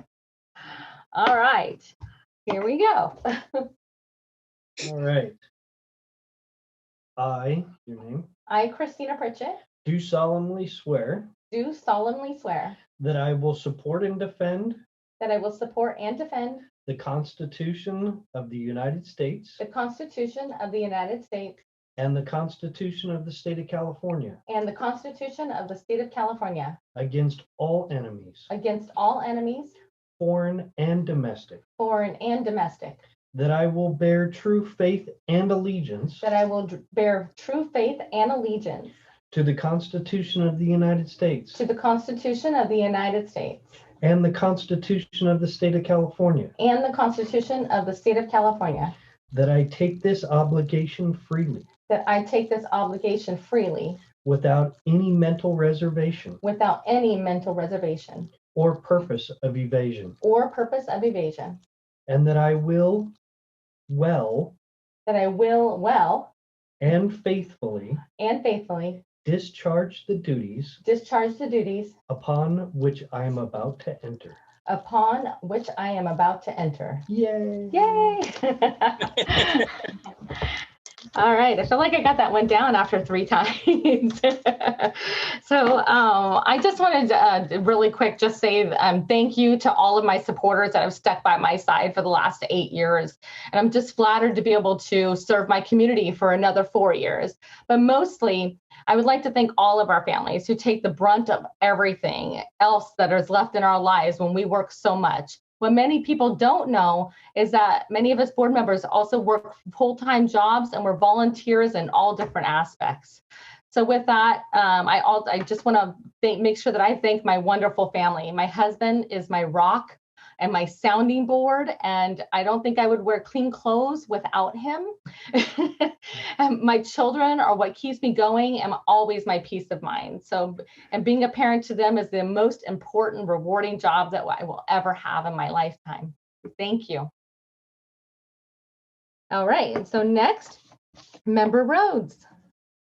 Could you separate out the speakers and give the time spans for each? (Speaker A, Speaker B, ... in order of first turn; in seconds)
Speaker A: 0.7-1.9, 2.5-3.7, 8.5-9.6, 11.5-12.8, 15.2-16.7, 19.6-21.6, 24.5-26.8, 28.5-29.8, 31.8-33.0, 36.2-39.0, 41.5-43.8, 46.6-48.9, 51.9-54.0, 56.4-58.3, 60.2-61.6, 65.0-66.3, 68.2-69.0, 70.8-71.9, 74.7-77.0, 77.7-79.8, 81.1-137.1, 139.3-140.6, 141.2-142.2
Speaker B: 4.8-5.4, 7.2-8.3, 9.8-11.3, 13.0-14.8, 16.9-19.6, 22.0-24.4, 26.9-28.5, 30.2-31.6, 33.3-36.3, 39.3-41.6, 44.0-46.5, 49.3-51.7, 54.2-56.4, 58.5-60.1, 62.1-63.1, 63.9-64.5, 66.8-68.0, 69.2-70.8, 72.1-74.4, 77.1-78.2